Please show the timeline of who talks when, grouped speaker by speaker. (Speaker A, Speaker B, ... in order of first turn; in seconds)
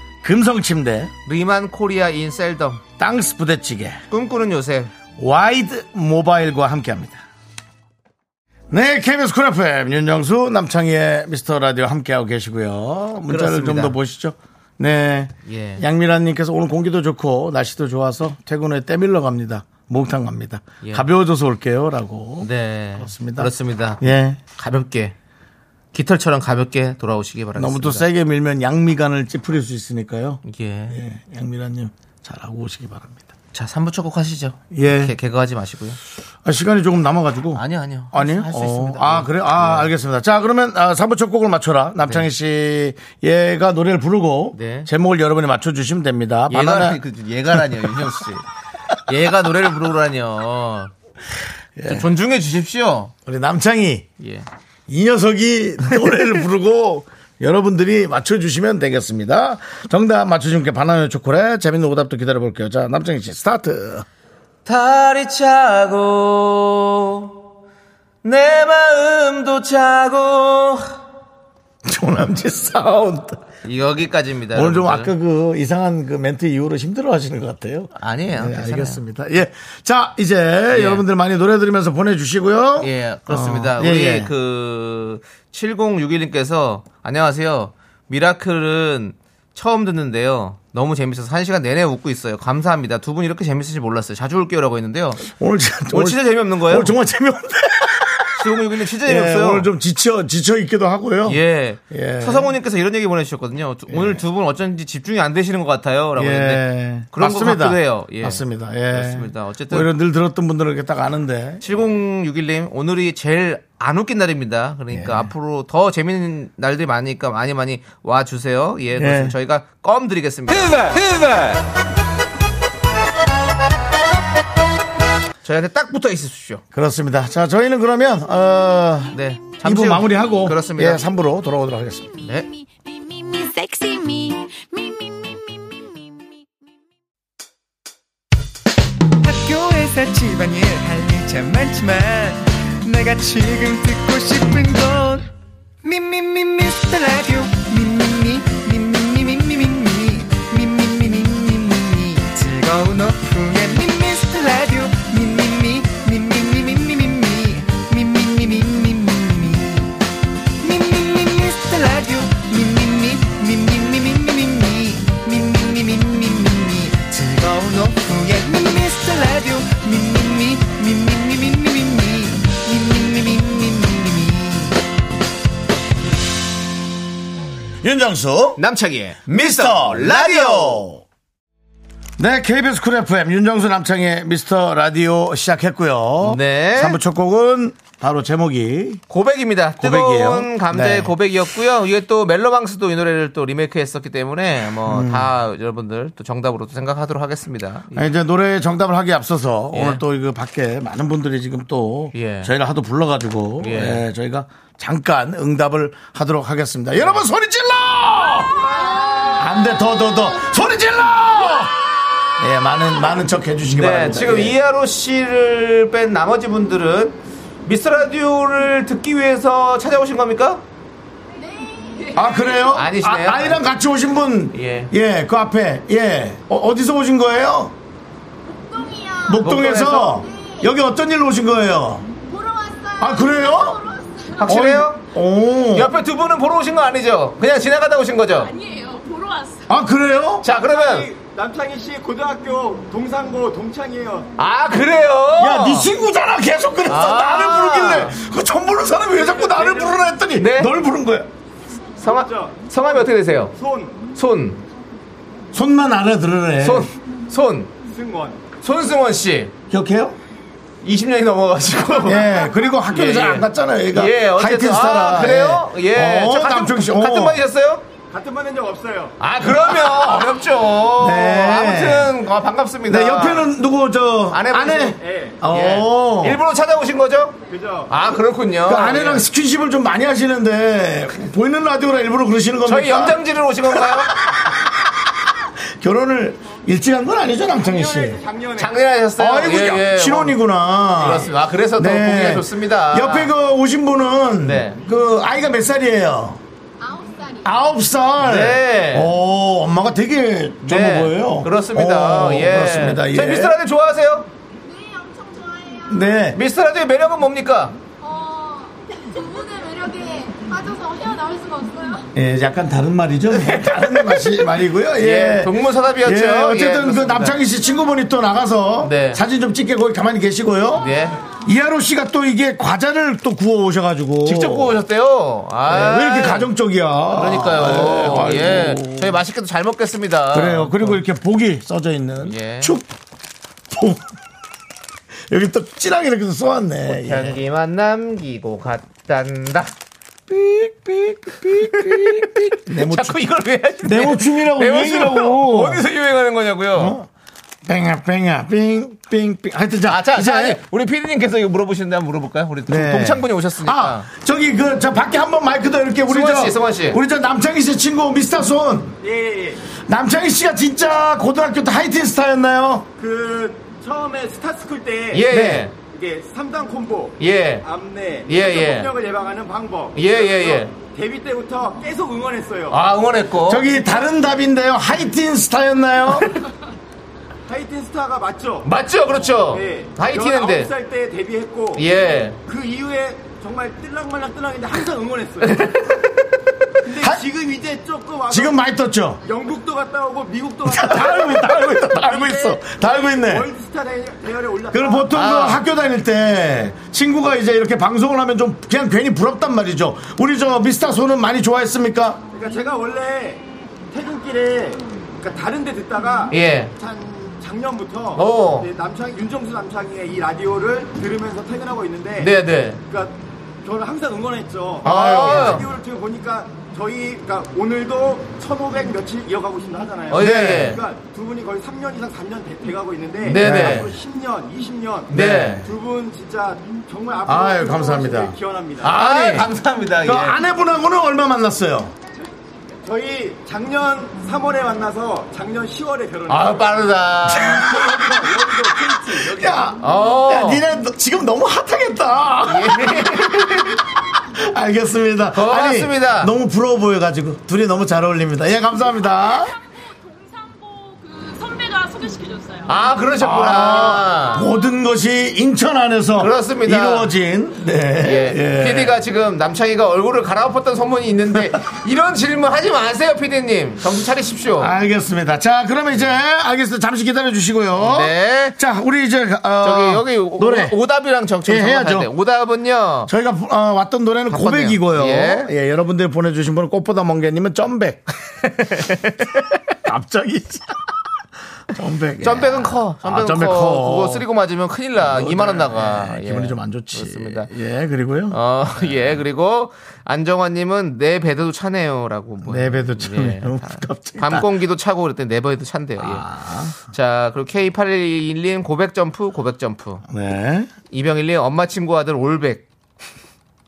Speaker A: 0.2-1.1, 3.0-4.0, 5.2-7.2, 8.7-24.4, 27.6-33.3, 34.7-35.1, 36.4-47.0, 47.5-47.9, 51.8-52.1, 53.2-54.1, 54.9-64.0, 71.8-73.4, 74.5-84.3, 95.2-102.5, 103.9-104.2, 106.2-111.6, 114.9-115.3, 119.0-119.3, 126.7-132.1, 177.8-178.6, 179.3-181.0, 182.2-189.0, 189.8-191.1, 194.8-195.3, 197.9-211.8, 212.4-214.6, 222.1-227.7, 229.2-232.1, 233.0-233.9, 234.4-235.9, 239.7-240.5, 245.4-251.3, 255.5-256.9, 259.7-260.2, 262.0-267.4, 269.4-270.3, 270.9-272.1, 272.9-276.4, 278.6-288.2, 289.2-296.4, 297.4-303.6, 305.8-306.4, 312.1-324.8, 325.6-329.2, 330.3-332.9, 333.7-334.1, 335.3-337.4, 340.3-343.2, 343.8-345.8, 346.7-347.1, 347.6-350.6, 352.7-359.0, 359.8-362.9, 365.3-365.6, 373.5-376.3, 387.0-387.2, 388.3-389.2, 390.6-393.5, 394.7-402.2, 420.1-420.8, 423.4-423.9, 425.1-425.6, 427.2-428.4, 429.1-429.5, 430.0-431.9, 437.3-449.6, 453.2-459.0, 464.6-470.8, 471.4-472.1, 473.1-478.0, 479.8-480.8, 481.7-484.2, 485.0-489.2, 492.4-494.5, 496.0-496.7, 500.1-500.7
Speaker B: 1.2-2.8, 4.1-4.9, 13.3-13.9, 15.4-15.8, 22.4-24.0, 24.5-25.1, 25.9-28.1, 30.4-31.0, 33.5-36.0, 37.5-39.9, 44.5-44.9, 46.5-48.4, 49.1-50.9, 51.9-53.1, 54.2-54.5, 64.6-67.4, 68.2-70.8, 73.6-75.1, 78.0-79.0, 80.7-81.0, 82.8-95.2, 95.9-96.9, 98.4-99.7, 101.2-109.9, 111.6-121.1, 125.4-126.6, 129.1-131.1, 132.2-132.5, 178.6-180.8, 186.2-187.0, 189.1-198.0, 199.7-200.0, 202.1-202.5, 203.6-204.0, 213.7-220.6, 222.6-223.6, 224.5-224.9, 229.4-230.2, 234.3-235.0, 235.7-238.5, 240.4-241.1, 244.4-245.9, 246.9-248.1, 250.4-250.7, 252.0-253.6, 254.1-254.6, 256.6-257.7, 258.6-259.5, 260.8-262.2, 262.9-267.8, 269.2-273.5, 274.3-279.2, 282.6-284.2, 288.6-290.4, 291.0-293.3, 294.4-294.8, 298.2-299.1, 300.6-304.3, 306.3-307.8, 313.4-317.4, 318.8-319.2, 320.8-321.2, 324.2-326.5, 327.1-331.0, 332.2-332.7, 336.9-339.7, 340.5-347.0, 349.9-354.1, 356.1-357.0, 365.1-365.7, 367.2-367.6, 368.3-368.9, 369.9-370.7, 372.7-373.7, 378.6-380.7, 381.8-382.4, 385.4-386.1, 395.1-395.6, 406.3-406.7, 408.1-408.7, 412.2-412.8, 414.8-415.7, 420.1-420.8, 423.2-423.9, 425.1-425.6, 428.8-430.4, 436.3-437.7, 439.8-440.6, 442.5-443.6, 445.3-446.3, 452.6-454.5, 456.2-457.1, 458.0-464.7, 467.8-468.6, 469.6-473.1, 474.3-475.5, 478.6-479.2, 482.2-487.5, 488.3-500.0, 500.9-502.6
Speaker C: 132.4-136.3, 309.5-309.9
Speaker D: 139.2-145.2, 145.8-159.9, 160.6-174.7
Speaker E: 240.5-244.3, 249.1-250.1, 252.0-253.0, 253.6-254.0, 257.9-258.4, 268.1-269.1, 274.9-275.4, 277.5-277.9, 287.5-288.8, 359.0-359.6, 363.0-372.8, 377.5-378.7, 379.5-381.9, 382.5-385.7, 386.8-388.7, 389.2-395.1, 402.3-429.3, 432.8-439.7